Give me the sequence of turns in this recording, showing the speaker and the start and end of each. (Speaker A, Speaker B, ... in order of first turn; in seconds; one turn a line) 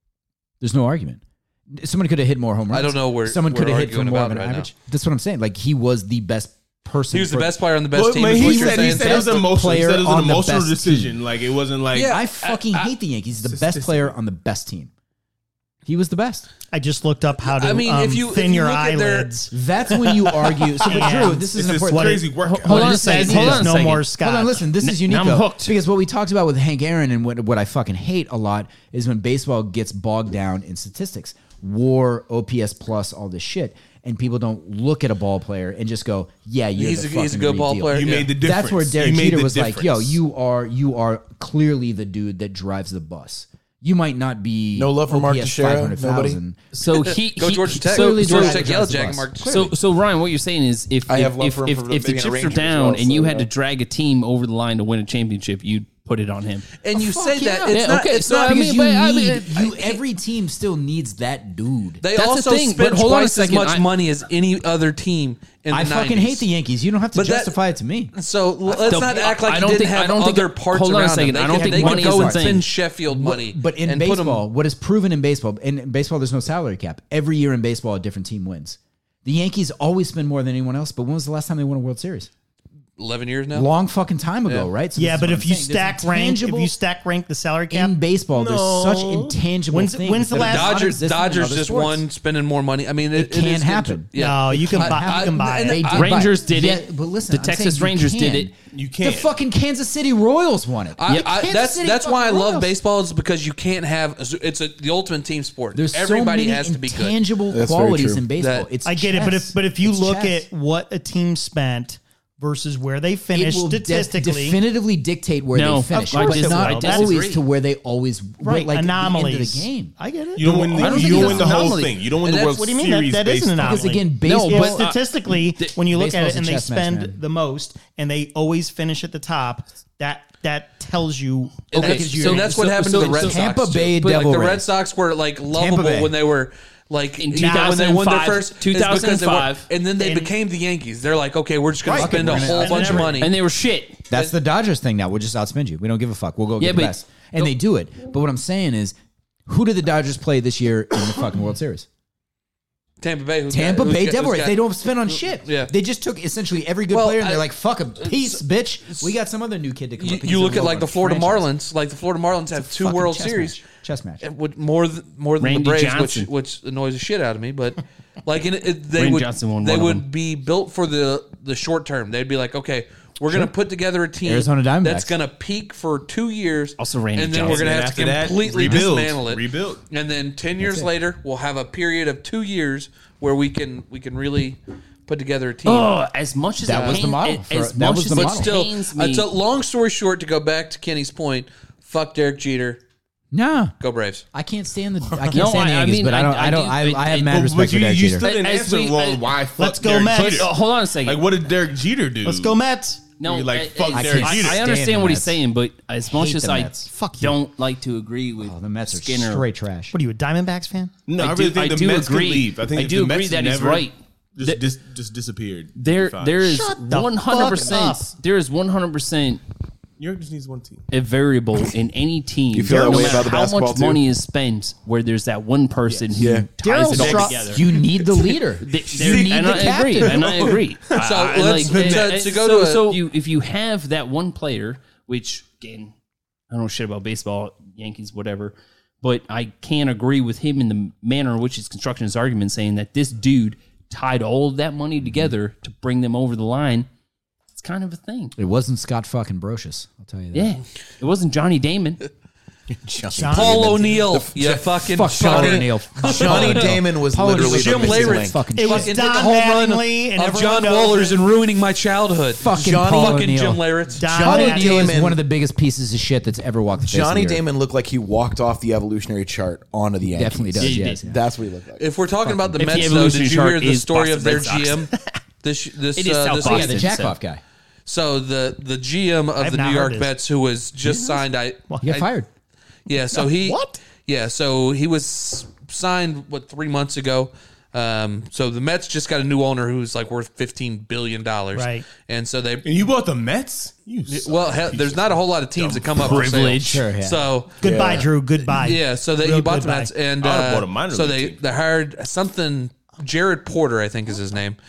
Speaker A: 0.6-7.6
Speaker B: 2.7-4.7
Speaker B: 7.1-9.3
Speaker C: 7.9-12.2
Speaker A: 8.2-11.2
Speaker B: 11.9-12.9
Speaker A: 12.0-14.9
Speaker C: 13.4-14.1
Speaker A: 15.8-16.5
Speaker D: 16.7-19.5
Speaker B: 17.4-19.3
Speaker A: 19.5-46.7
Speaker D: 20.8-24.6
Speaker C: 21.1-23.1
Speaker E: 22.4-24.1
Speaker E: 24.8-25.8
Speaker B: 36.8-38.3
Speaker C: 37.9-40.2
Speaker F: 44.7-46.4
Speaker E: 46.7-48.7
Speaker B: 47.0-49.7
Speaker A: 47.8-49.7
Speaker E: 49.5-56.7
Speaker F: 51.1-53.5
Speaker B: 56.8-58.3
Speaker A: 56.9-62.0
Speaker E: 57.7-60.0
Speaker B: 62.0-66.5
Speaker E: 62.1-63.9
Speaker A: 65.7-68.1
Speaker B: 67.1-67.5
Speaker B: 68.1-74.4
Speaker E: 68.8-72.6
Speaker A: 71.5-82.3
Speaker B: 83.0-83.7
Speaker A: 83.5-86.7
Speaker D: 84.9-88.0
Speaker A: 87.7-92.0
Speaker C: 88.3-89.4
Speaker D: 89.7-90.8
Speaker B: 90.4-96.2
Speaker A: 93.1-102.8
Speaker D: 94.1-95.8
Speaker E: 95.9-98.5
Speaker C: 98.7-99.3
Speaker B: 101.0-107.2
Speaker A: 105.7-110.5
Speaker F: 107.5-108.3
Speaker B: 108.3-108.7
Speaker D: 108.8-114.6
Speaker A: 113.3-119.9
Speaker E: 115.5-117.4
Speaker D: 115.9-117.1
Speaker D: 118.4-121.8
Speaker C: 120.3-123.9
Speaker E: 120.7-122.0
Speaker B: 122.2-122.7
Speaker D: 122.5-132.3
Speaker A: 123.6-124.9
Speaker E: 124.2-125.7
Speaker A: 125.8-127.2
Speaker B: 131.7-143.3
Speaker E: 131.7-133.4
Speaker A: 131.8-134.7
Speaker A: 135.5-136.1
Speaker E: 137.2-139.7
Speaker D: 140.0-140.3
Speaker A: 141.8-143.1
Speaker D: 142.1-143.2
Speaker E: 143.1-144.0
Speaker A: 144.1-148.9
Speaker E: 146.6-146.9
Speaker A: 149.5-151.9
Speaker B: 153.0-154.6
Speaker A: 153.5-161.5
Speaker B: 155.1-155.7
Speaker B: 156.9-157.5
Speaker B: 158.0-159.1
Speaker B: 160.0-163.6
Speaker A: 162.5-164.2
Speaker B: 164.2-185.9
Speaker E: 165.4-166.3
Speaker E: 168.9-170.0
Speaker A: 174.2-175.1
Speaker E: 176.8-177.8
Speaker C: 177.4-179.8
Speaker A: 180.6-180.9
Speaker E: 185.6-189.3
Speaker A: 186.6-188.5
Speaker B: 186.7-187.1
Speaker B: 188.1-192.8
Speaker A: 193.3-193.7
Speaker B: 193.8-194.2
Speaker A: 194.3-198.2
Speaker E: 195.3-197.4
Speaker C: 197.2-202.6
Speaker E: 198.2-199.3
Speaker D: 199.6-200.5
Speaker E: 200.1-201.2
Speaker D: 202.2-203.0
Speaker C: 203.2-204.6
Speaker E: 203.2-209.5
Speaker A: 203.9-205.4
Speaker A: 206.1-206.9
Speaker D: 206.9-207.3
Speaker A: 208.4-209.9
Speaker D: 209.9-210.9
Speaker C: 211.1-216.5
Speaker E: 211.2-214.6
Speaker E: 215.8-219.4
Speaker D: 216.4-218.1
Speaker C: 220.0-220.9
Speaker E: 220.9-227.7
Speaker F: 222.5-224.0
Speaker F: 226.2-227.3
Speaker D: 226.6-227.6
Speaker A: 227.4-230.5
Speaker E: 228.6-235.9
Speaker C: 230.0-230.6
Speaker B: 230.9-233.0
Speaker E: 236.5-246.9
Speaker A: 245.0-245.3
Speaker E: 247.5-248.4
Speaker A: 248.4-250.6
Speaker E: 250.3-252.0
Speaker F: 252.8-258.5
Speaker D: 253.2-254.1
Speaker B: 253.2-264.2
Speaker A: 254.9-259.1
Speaker D: 258.5-261.2
Speaker A: 262.3-267.4
Speaker F: 262.5-263.2
Speaker D: 264.0-264.9
Speaker F: 264.1-265.2
Speaker F: 266.8-271.9
Speaker A: 270.0-271.2
Speaker E: 270.6-271.0
Speaker B: 271.8-274.9
Speaker A: 272.2-272.9
Speaker E: 272.5-275.1
Speaker B: 275.4-277.0
Speaker E: 275.9-277.2
Speaker A: 276.4-277.4
Speaker B: 277.9-282.1
Speaker D: 279.4-280.1
Speaker A: 281.8-282.3
Speaker B: 282.9-292.7
Speaker D: 282.9-283.8
Speaker D: 291.5-291.9
Speaker C: 292.6-296.3
Speaker B: 294.1-304.6
Speaker E: 296.0-296.8
Speaker A: 296.6-297.3
Speaker D: 297.6-299.9
Speaker F: 297.6-298.1
Speaker C: 300.2-301.6